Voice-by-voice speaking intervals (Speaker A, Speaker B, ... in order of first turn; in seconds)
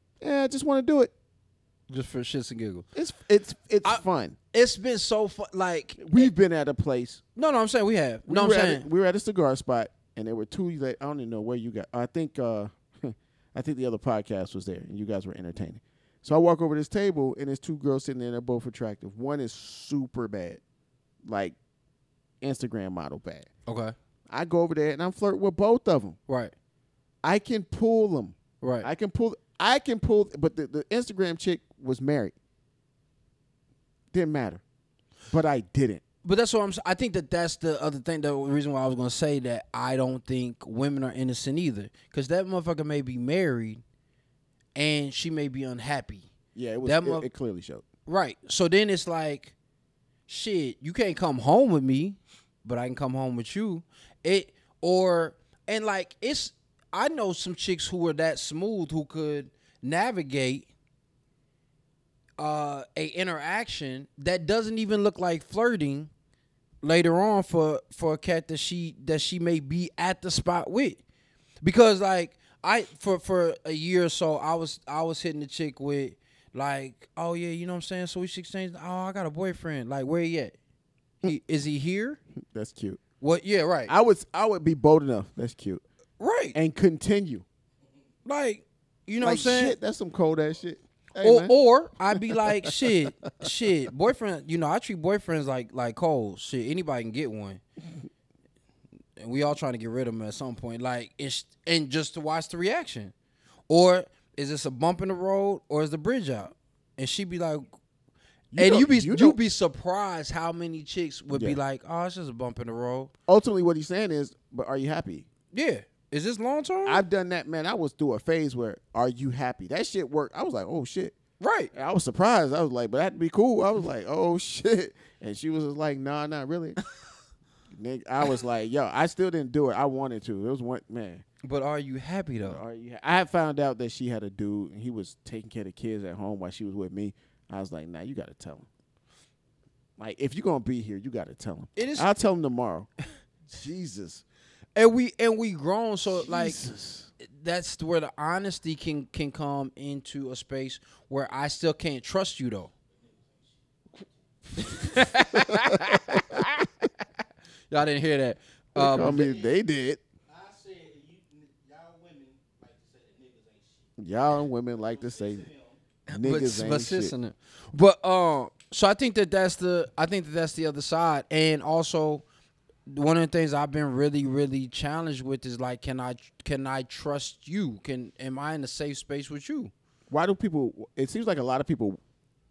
Speaker A: 0.2-1.1, 3.0-4.4, 6.0-7.2, 8.3-20.6, 21.2-21.6, 22.4-23.5, 24.3-26.2, 27.2-32.3, 34.1-34.6, 35.3-36.0, 46.5-47.9, 82.5-83.0, 83.9-85.8, 86.5-87.5, 89.2-91.5, 92.1-93.5, 108.5-109.4, 111.3-111.6, 113.3-115.3, 116.9-121.2, 121.7-126.8, 127.7-131.2, 132.4-138.7, 140.0-142.9, 143.5-144.2, 146.1-147.1, 155.2-156.6, 158.8-160.0, 164.0-165.5, 166.1-167.1, 180.1-182.0
Speaker B: 1.9-2.9, 3.8-6.3, 7.4-8.9, 23.7-23.9, 26.3-26.5, 28.6-28.9, 36.2-43.8, 44.8-46.3, 46.8-47.3, 48.1-49.5, 50.3-60.7, 62.4-66.1, 66.8-71.0, 71.6-80.6, 81.2-82.2, 83.2-83.9, 86.2-86.6, 88.3-89.8, 91.2-97.6, 99.2-103.1, 103.7-107.7, 108.6-113.1, 115.5-117.0, 121.4-121.7, 131.4-132.6, 141.8-142.1, 144.8-146.6, 147.2-152.7, 154.6-156.6, 157.7-159.3, 166.1-172.2, 172.9-179.7
Speaker C: 152.9-155.1, 158.9-159.6, 160.3-164.0, 164.7-165.8